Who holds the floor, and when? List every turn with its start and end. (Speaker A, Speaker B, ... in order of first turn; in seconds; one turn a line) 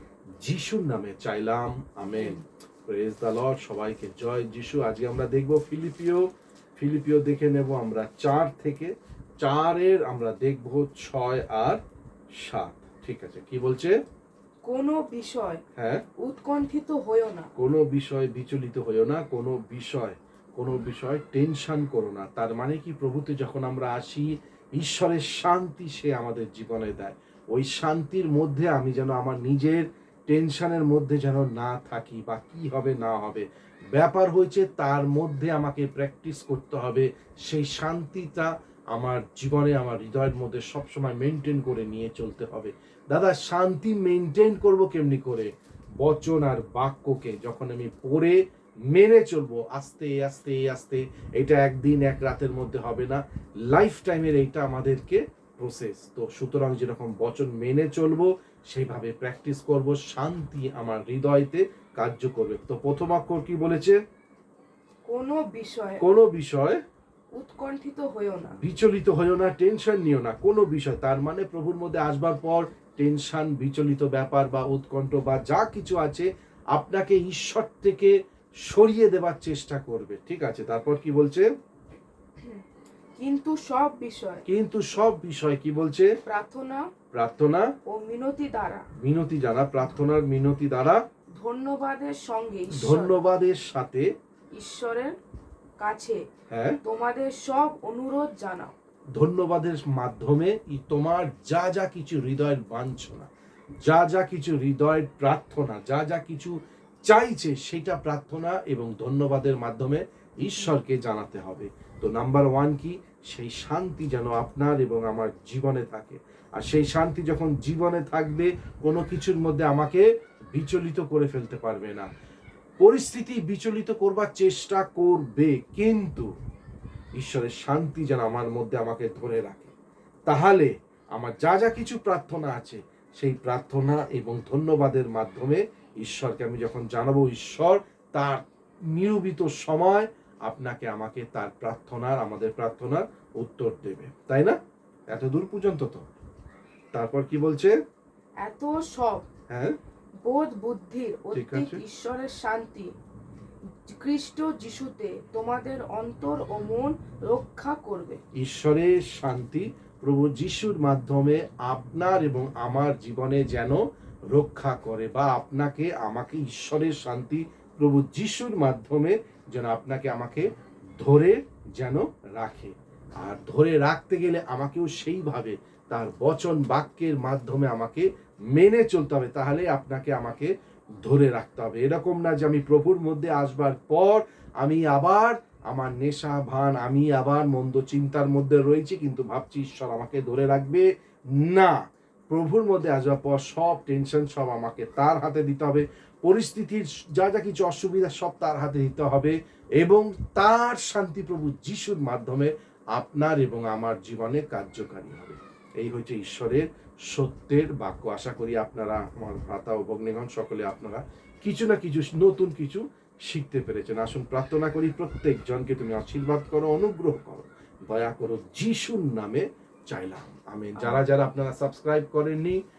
Speaker A: 0.4-11.8
Speaker B: 2.1-2.4
Speaker A: 12.3-13.9
Speaker B: 14.6-15.6
Speaker A: 15.8-16.0
Speaker B: 16.2-17.5
Speaker A: 17.6-48.4
Speaker A: 48.9-64.0
Speaker B: 65.1-66.0
Speaker A: 66.0-66.8
Speaker B: 67.3-68.6
Speaker A: 68.6-78.1
Speaker A: 78.6-81.5
Speaker B: 82.4-82.6
Speaker B: 83.2-84.4
Speaker A: 84.5-86.1
Speaker B: 86.2-86.9
Speaker A: 87.1-87.7
Speaker B: 87.8-88.9
Speaker A: 89.0-91.0
Speaker B: 91.3-93.2
Speaker A: 92.7-94.0
Speaker B: 94.5-95.2
Speaker B: 95.8-96.2
Speaker A: 96.5-96.8
Speaker B: 96.8-98.7
Speaker A: 99.2-103.3
Speaker A: 103.8-106.5
Speaker A: 107.1-122.1
Speaker A: 122.8-126.3
Speaker A: 127.2-129.7
Speaker A: 130.3-146.0
Speaker A: 146.9-147.7
Speaker B: 148.4-149.2
Speaker A: 149.5-149.8
Speaker B: 150.2-152.9
Speaker A: 151.3-151.8
Speaker B: 153.8-158.2
Speaker A: 158.3-180.5
Speaker A: 181.0-190.8
Speaker A: 191.4-222.6
Speaker B: 220.8-221.0